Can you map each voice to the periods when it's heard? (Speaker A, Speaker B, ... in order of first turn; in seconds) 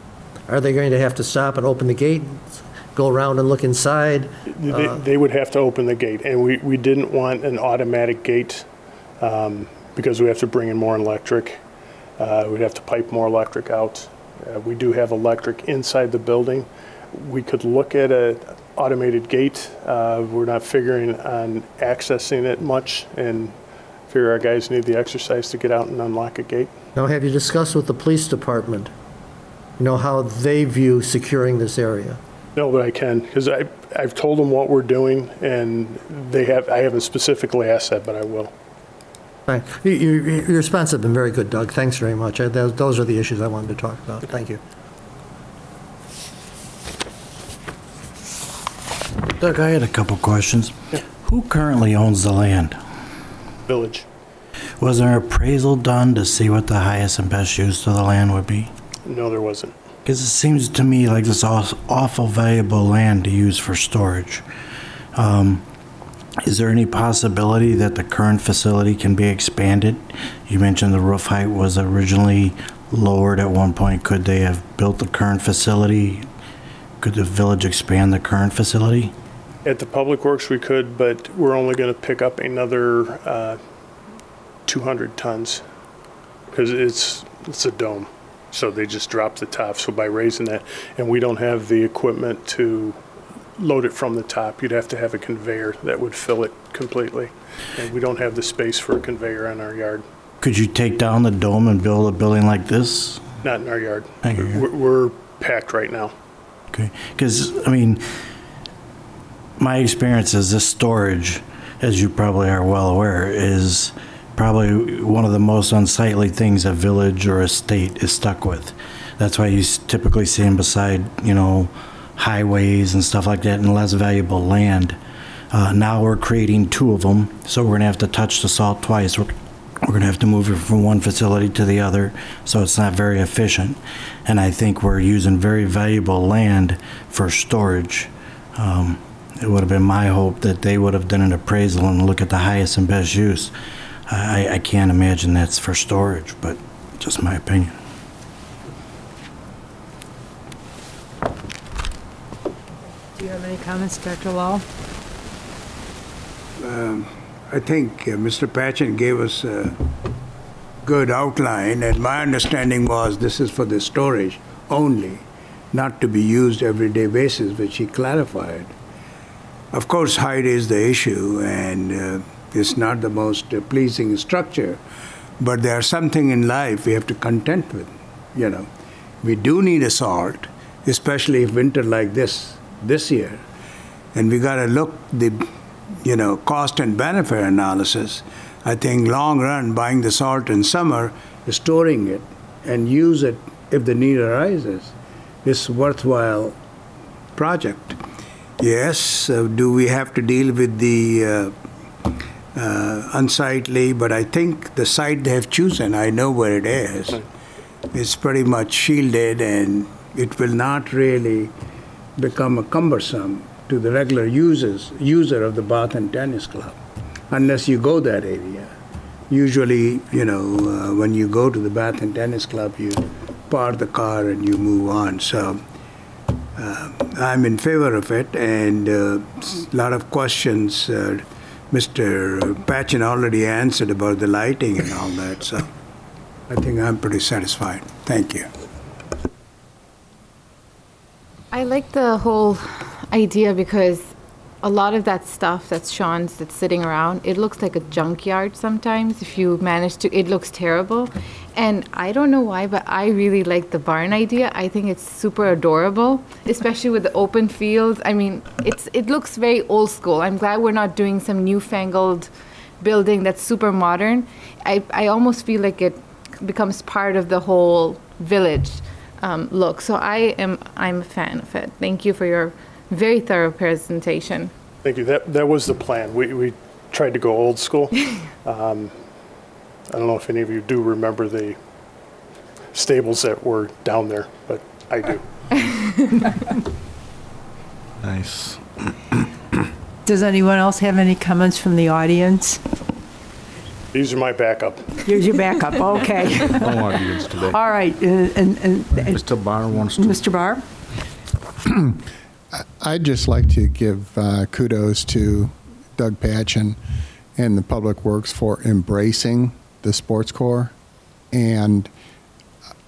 Speaker A: 0.5-5.0, 27.0-28.9, 29.8-32.2, 39.5-44.6
Speaker B: 4.5-8.7, 9.2-11.6, 12.2-23.6, 24.1-26.7, 32.6-38.5, 53.7-54.1, 59.0-59.7, 79.7-83.6, 84.7-85.6, 86.5-93.0, 93.6-100.0, 103.4-106.1, 274.8-278.9, 279.9-281.6, 282.7-285.7, 293.9-295.0
Speaker C: 49.4-52.8, 54.8-58.7, 60.0-64.5, 65.2-65.7, 66.4-76.3, 77.0-79.1, 100.4-103.2, 104.2-104.7, 106.7-108.0, 109.6-125.0, 125.5-143.5, 144.1-147.8
Speaker D: 153.2-154.7, 290.1-292.6, 295.1-299.2, 299.9-300.6
Speaker E: 156.6-159.9, 160.8-168.7, 169.7-174.8, 175.4-178.7, 179.2-183.4, 184.1-185.5, 186.0-194.9, 195.4-196.6, 197.3-198.0, 198.6-201.6, 202.5-207.3, 207.9-211.5, 212.2-216.8, 217.3-218.8, 219.3-225.6, 226.6-235.7, 236.5-238.5
Speaker F: 241.5-244.1, 244.6-262.3, 262.8-274.5, 285.6-286.3
Speaker G: 288.0-289.0, 296.5-297.6, 299.1-300.2
Speaker H: 302.6-306.8, 307.4-310.7, 311.3-311.9